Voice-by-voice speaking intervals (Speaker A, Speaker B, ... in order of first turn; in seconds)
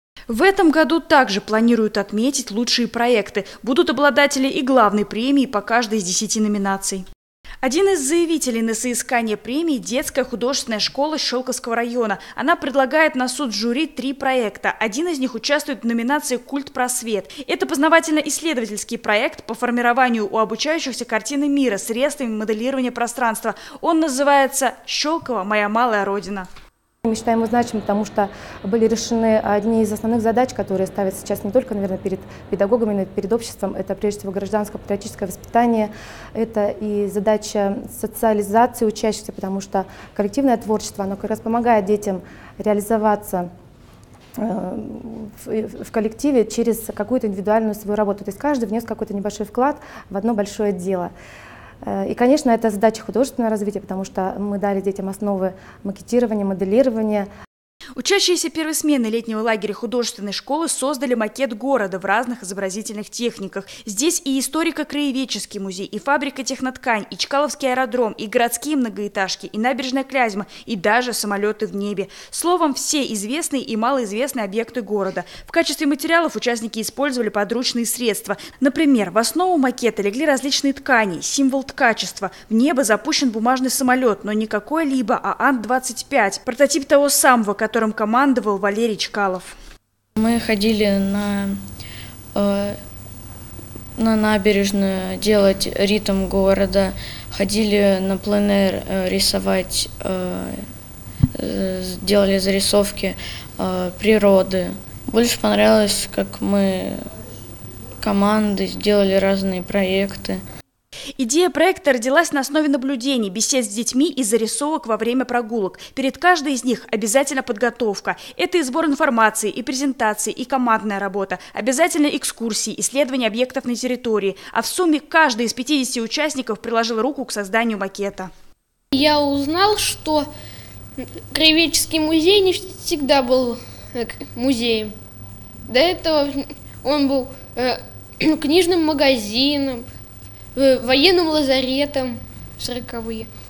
Speaker A: 0.3-7.0, 7.6-26.5, 58.0-89.6, 111.2-128.3
Speaker B: 27.1-43.5, 44.4-51.1, 51.8-57.3
Speaker C: 90.2-91.6, 92.3-92.8, 94.0-100.7, 101.3-107.0, 108.0-110.4
Speaker D: 128.9-130.3, 131.0-134.9, 135.7-139.9, 140.6-143.3